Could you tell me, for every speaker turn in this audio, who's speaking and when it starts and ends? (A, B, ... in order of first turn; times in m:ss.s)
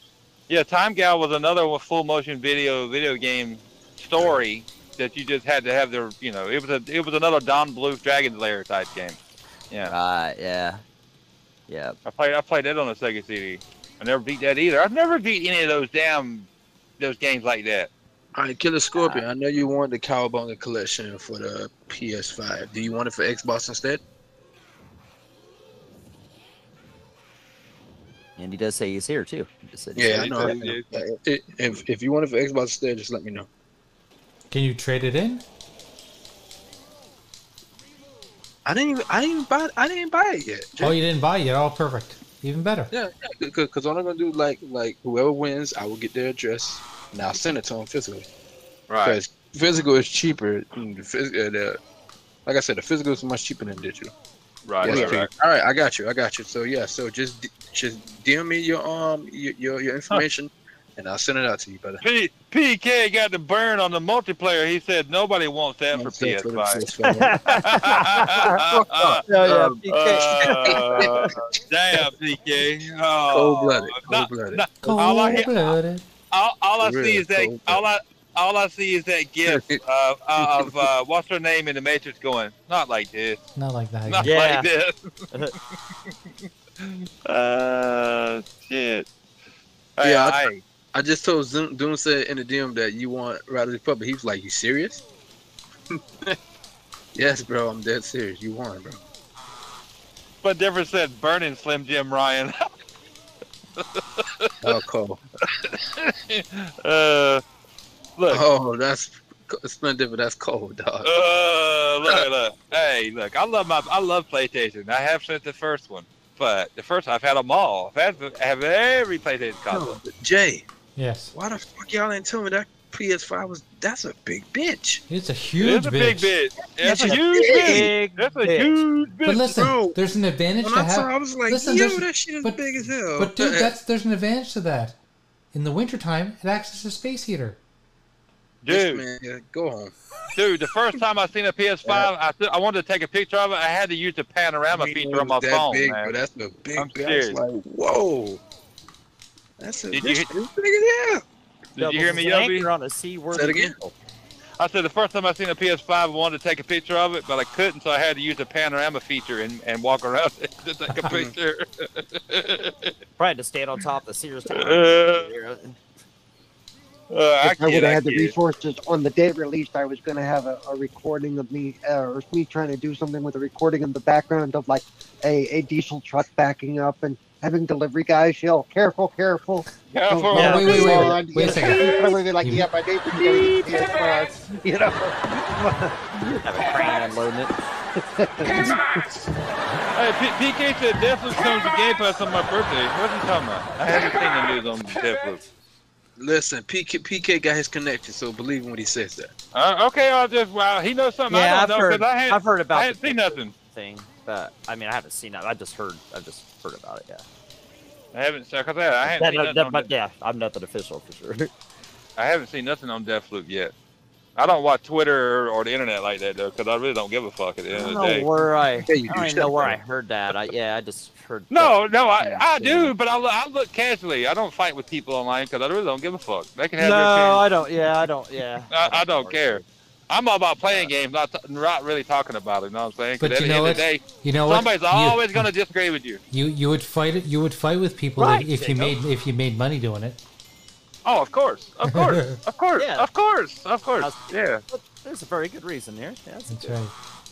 0:00.5-0:09.2 A
0:09.8-0:10.8 B
0:11.7-0:12.0 B
0:12.0-0:16.5 A
0:17.0-0:17.9 A
0:18.3-0:24.0 C
0:18.9-0:19.2 B
0:28.4-0:30.6 B
0:30.0-0:33.5 C
0:30.1-0:31.0 A
0:34.5-0:35.4 D
0:38.6-0:41.0 C
0:40.8-0:42.9 D
0:42.9-0:48.3 C
0:48.9-0:49.2 A
0:49.0-0:51.8 C
0:52.4-0:54.1 C
0:54.6-0:55.3 A
0:54.8-1:02.0 C
0:54.8-0:55.2 B
1:02.0-1:06.8 A
1:05.9-1:11.4 C
1:07.0-1:08.6 B
1:07.5-1:15.7 A
1:09.3-1:11.3 B
1:13.3-1:15.4 C
1:14.8-1:16.0 D
1:16.3-1:23.4 A
1:16.8-1:17.8 C
1:19.4-1:19.8 C
1:20.4-1:20.8 C
1:23.6-1:24.3 D
1:24.1-1:24.9 A
1:24.2-1:24.7 B
1:26.8-1:29.1 A
1:30.0-1:30.6 A
1:30.0-1:30.4 C
1:30.9-1:35.0 C
1:35.9-1:36.4 C
1:37.1-1:39.0 C
1:40.4-1:42.6 A
1:43.8-1:44.6 A
1:44.6-1:45.2 C
1:45.6-1:47.4 A
1:48.2-1:48.4 A
1:48.3-1:51.1 C
1:51.0-2:00.0 A
1:59.7-2:00.6 C
2:01.0-2:01.3 D
2:01.3-2:05.0 C
2:05.1-2:06.3 D
2:05.6-2:09.5 A
2:06.8-2:07.9 C
2:06.8-2:08.8 B
2:09.2-2:15.0 D
2:09.5-2:10.0 C
2:10.6-2:13.7 C
2:15.5-2:17.6 D
2:18.6-2:19.0 A
2:18.7-2:19.9 C
2:20.3-2:26.1 A
2:21.8-2:22.1 C
2:24.7-2:28.4 C
2:26.8-2:27.4 A
2:29.6-2:31.2 C
2:29.9-2:30.3 A
2:31.8-2:32.7 A
2:31.8-2:33.9 B
2:33.3-2:33.7 C
2:34.6-2:42.9 A
2:41.1-2:41.3 C
2:43.2-2:45.8 B
2:44.5-2:45.3 A
2:47.1-2:48.3 A
2:47.4-3:06.0 E
2:59.9-3:02.2 A
3:00.3-3:00.9 B
3:00.3-3:02.7 D
3:03.1-3:03.8 A
3:06.4-3:07.5 B
3:08.0-3:09.0 E
3:09.9-3:15.5 A
3:16.2-3:19.3 C
3:19.5-3:23.5 A
3:21.3-3:27.2 B
3:28.1-3:29.9 A
3:29.0-3:31.5 B
3:32.2-3:33.7 A
3:34.4-3:38.3 A
3:37.7-3:42.9 B
3:38.8-3:39.8 C
3:41.5-3:47.4 A
3:46.8-3:49.6 B
3:48.7-3:56.2 A
3:53.2-3:55.5 D
3:56.3-4:00.2 D
3:58.2-3:58.9 B
4:01.0-4:04.6 A
4:01.9-4:02.4 D
4:02.8-4:03.1 B
4:04.0-4:06.8 B
4:06.5-4:06.9 D